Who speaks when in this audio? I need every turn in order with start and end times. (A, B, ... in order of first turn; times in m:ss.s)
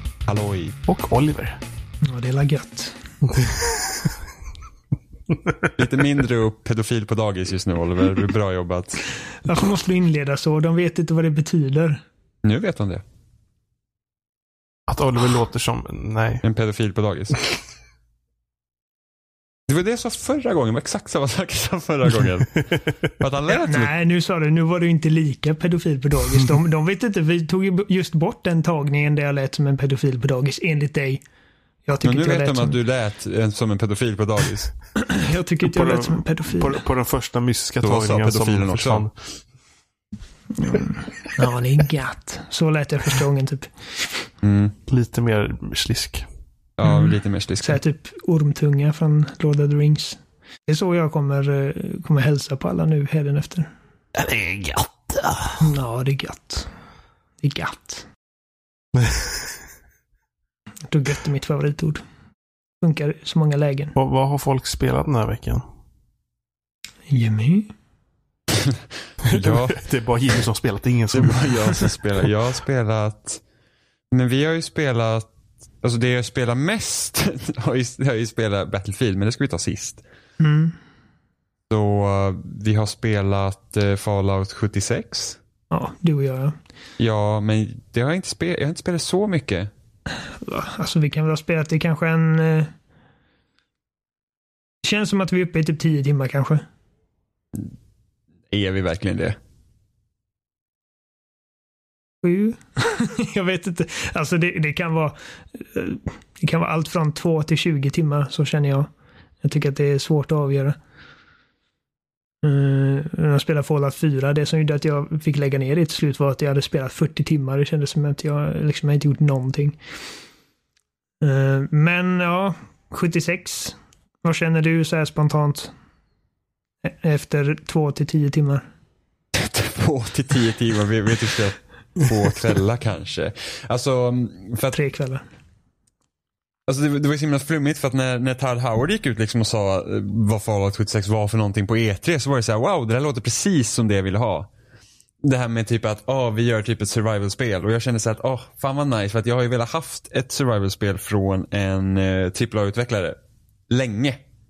0:00.3-0:00.8 A
0:00.9-0:01.6 B
0:02.1-0:03.0 C
0:03.3-0:04.1 B
0:05.8-0:09.0 A
0:09.4-0:12.0 C
0:12.4-0:13.0 A
0:14.9-0:16.4 B
0:16.4-0:17.5 A
0:19.7-0:23.9 A
0:23.5-0:31.2 C
0:31.8-0:32.8 C
0:32.0-0:34.7 A
0:35.0-0:36.8 C
0:35.6-0:39.1 B
0:37.8-0:39.1 A
0:40.6-0:44.3 C
0:44.4-0:44.8 A
0:44.9-0:46.2 B
0:46.8-0:47.8 A
0:46.8-0:53.7 C
0:54.2-0:55.6 B
0:55.6-0:56.7 C
0:57.4-0:58.1 C
0:59.0-0:59.4 B
1:00.9-1:02.0 C
1:02.8-1:04.0 C
1:04.0-1:05.6 B
1:07.1-1:07.7 C
1:08.5-1:09.8 A
1:09.2-1:12.3 B
1:11.1-1:13.4 A
1:14.1-1:15.3 A
1:15.8-1:20.0 A
1:20.4-1:20.8 C
1:21.7-1:25.4 A
1:25.7-1:26.6 C
1:27.0-1:29.7 A
1:30.3-1:32.7 C
1:34.8-1:36.6 C
1:38.5-1:39.4 A
1:42.2-1:48.9 C
1:49.4-1:50.8 C
1:52.4-1:59.8 C
2:01.2-2:05.7 C
2:06.8-2:08.7 C
2:09.4-2:14.8 A
2:14.7-2:15.2 C
2:16.7-2:24.5 A
2:25.2-2:33.2 A
2:33.7-2:34.2 A